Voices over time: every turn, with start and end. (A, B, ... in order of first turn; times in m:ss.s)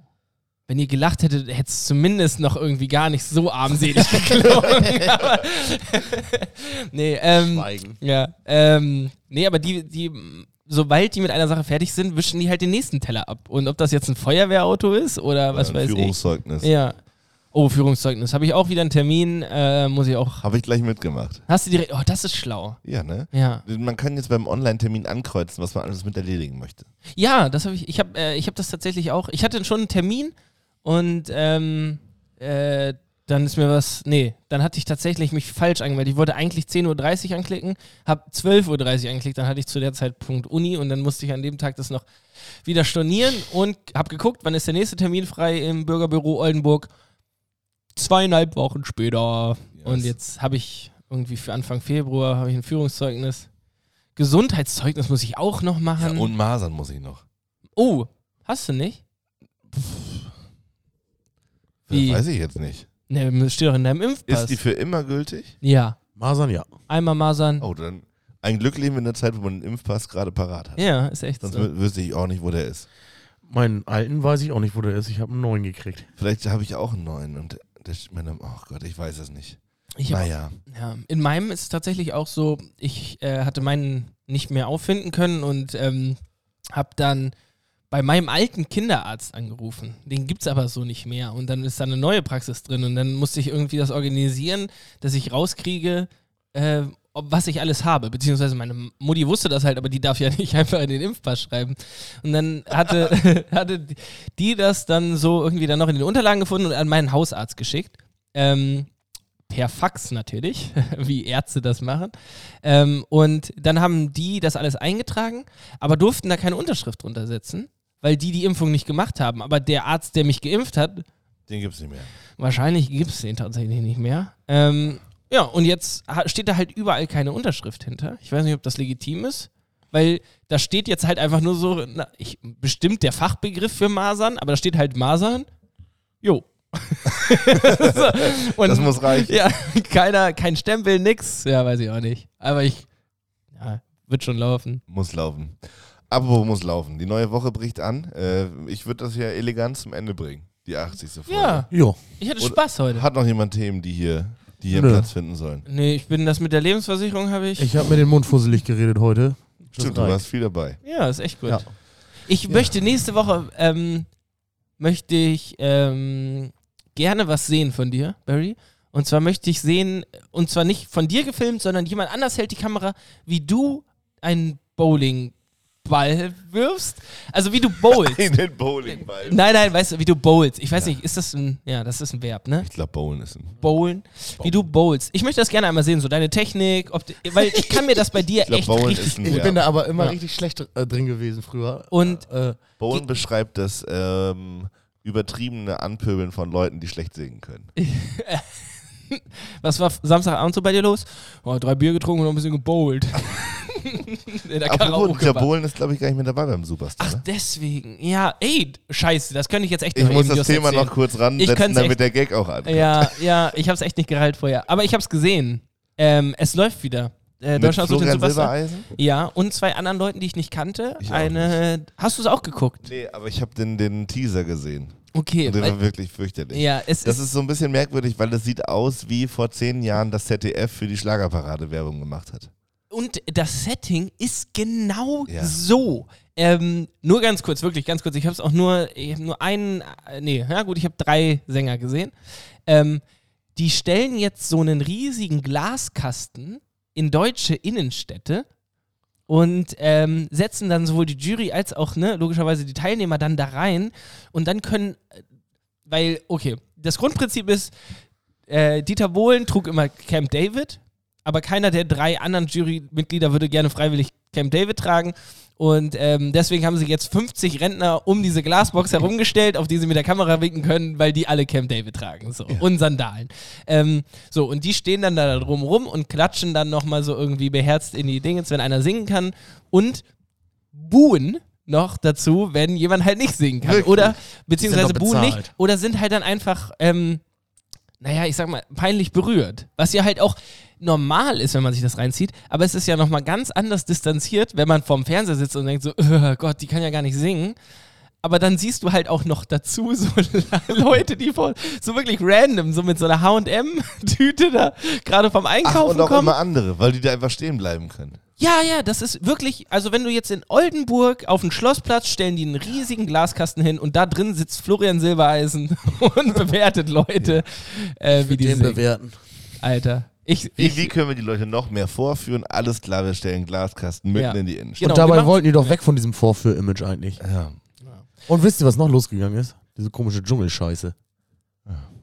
0:00.7-0:17.0 A
0:04.6-0:05.1 B
0:07.4-0:08.0 C
0:15.5-0:16.7 B
0:17.5-0:20.4 A
0:20.4-0:21.4 B
0:21.5-0:22.8 A
0:22.8-0:26.9 B
0:23.3-0:23.6 A
0:27.2-0:42.0 A
0:42.6-0:46.9 A
0:48.0-0:53.5 A
0:49.8-0:50.2 B
0:54.2-0:56.3 A
0:56.0-0:57.2 B
0:57.8-0:59.0 A
0:59.7-1:00.3 B
1:01.9-1:02.9 B
1:01.9-1:02.2 A
1:03.1-1:04.6 A
1:04.3-1:05.6 B
1:05.6-1:06.0 A
1:06.2-1:06.7 C
1:06.9-1:07.7 A
1:07.6-1:10.9 B
1:10.8-1:11.7 A
1:11.4-1:12.9 B
1:13.5-1:16.1 C
1:16.2-1:20.6 B
1:20.0-1:26.2 A
1:26.7-1:27.3 A
1:27.9-1:48.9 A
1:49.5-2:01.1 A
2:01.5-2:02.1 B
2:02.4-2:15.5 A
2:16.2-2:22.9 A
2:17.2-2:19.4 B
2:23.6-2:24.8 A
2:24.9-2:31.7 B
2:31.3-2:33.1 A
2:31.7-2:32.0 C
2:32.4-2:35.6 B
2:34.7-2:35.1 C
2:35.7-2:37.8 A
2:37.6-2:40.2 C
2:39.8-2:40.8 B
2:40.8-2:41.7 A
2:42.3-2:44.1 A
2:44.8-2:58.3 A
2:57.9-2:59.4 B
2:58.9-3:02.7 A
3:02.6-3:03.6 B
3:03.6-3:10.2 A
3:07.4-3:09.6 B
3:09.2-3:12.6 C
3:11.9-3:12.2 A
3:12.8-3:17.7 B
3:17.8-3:18.6 A
3:19.1-3:25.5 A
3:24.6-3:27.2 B
3:27.0-3:32.0 A
3:29.9-3:33.3 B
3:32.6-3:42.9 A
3:37.6-3:38.9 B
3:41.0-3:41.6 B
3:42.8-3:52.5 B
3:45.1-3:45.8 A
3:46.5-3:47.2 A
3:52.9-4:02.1 A
3:55.3-3:55.6 B
4:02.7-4:03.0 A
4:03.6-4:08.5 A
4:09.3-4:15.2 A
4:15.9-4:17.7 A
4:18.5-4:40.0 A
4:40.7-4:47.2 A
4:43.6-4:44.2 B
4:44.6-4:45.5 C
4:48.0-4:57.6 A
4:58.2-5:06.4 A
5:05.6-5:08.2 B
5:08.4-5:18.8 A
5:18.1-5:19.2 C
5:19.6-5:20.9 A
5:20.6-5:24.8 B
5:24.2-5:25.8 A
5:24.8-5:27.2 C
5:27.2-5:27.6 B
5:28.3-5:31.0 C